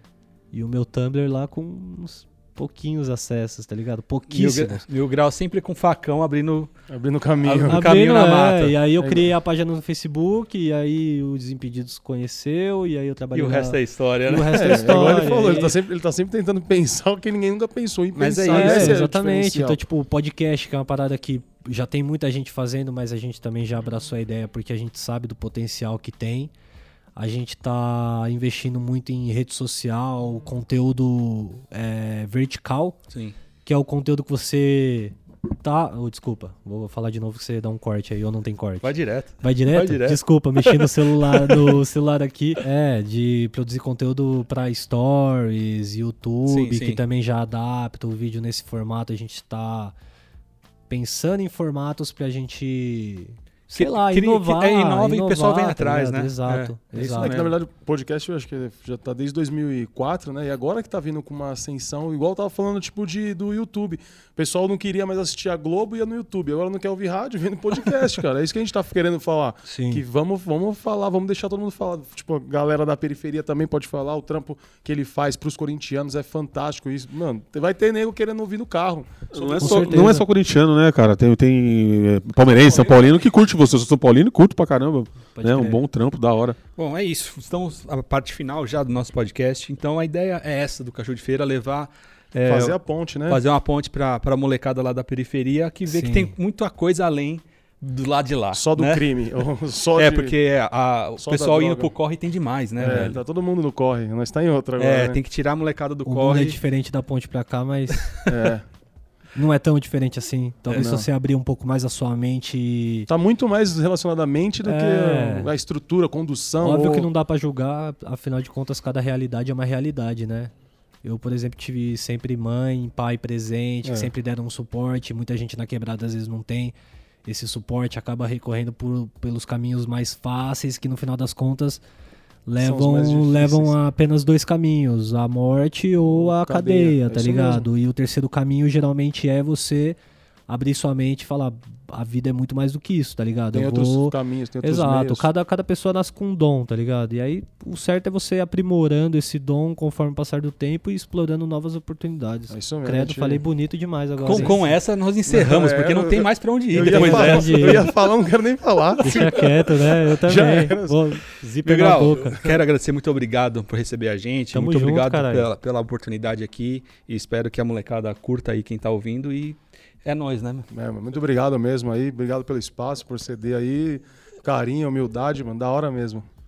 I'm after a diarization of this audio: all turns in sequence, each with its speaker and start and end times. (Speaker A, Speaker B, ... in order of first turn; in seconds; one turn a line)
Speaker A: 0.5-4.8
Speaker B: 4.3-6.7
Speaker C: 6.9-7.8
Speaker B: 7.4-9.2
Speaker A: 7.7-15.8
Speaker B: 13.3-15.3
Speaker C: 14.5-19.8
Speaker B: 18.1-19.0
Speaker A: 18.5-26.5
Speaker A: 27.1-33.0
Speaker B: 33.1-33.4
Speaker A: 33.6-50.0
Speaker B: 38.8-41.8
Speaker B: 46.5-47.0
Speaker A: 50.9-57.4
Speaker B: 53.7-57.5
Speaker C: 57.0-80.2
Speaker A: 69.7-70.0
Speaker D: 79.3-86.6
Speaker A: 79.6-80.3
Speaker C: 82.6-83.2
Speaker A: 85.4-85.8
Speaker B: 86.8-92.8
Speaker C: 92.5-93.4
Speaker B: 93.3-99.0
Speaker A: 95.9-96.3
Speaker C: 98.5-100.3
Speaker B: 100.0-103.2
Speaker C: 101.2-101.9
Speaker C: 102.8-105.2
Speaker B: 104.8-106.6
Speaker A: 106.1-108.1
Speaker C: 108.3-108.7
Speaker A: 109.4-113.1
Speaker C: 110.7-111.1
Speaker C: 113.1-117.1
Speaker A: 114.6-115.5
Speaker A: 116.6-120.5
Speaker A: 121.0-131.8
Speaker C: 123.8-124.1
Speaker A: 132.5-140.0
Speaker C: 132.6-133.7
Speaker C: 136.1-137.7
Speaker A: 140.5-154.7
Speaker C: 143.5-145.3
Speaker C: 152.5-153.4
Speaker B: 154.2-157.8
Speaker C: 154.3-154.6
Speaker C: 155.3-161.1
Speaker A: 156.8-157.9
Speaker A: 159.0-162.4
Speaker B: 161.6-170.7
Speaker A: 164.5-165.5
Speaker C: 170.7-176.2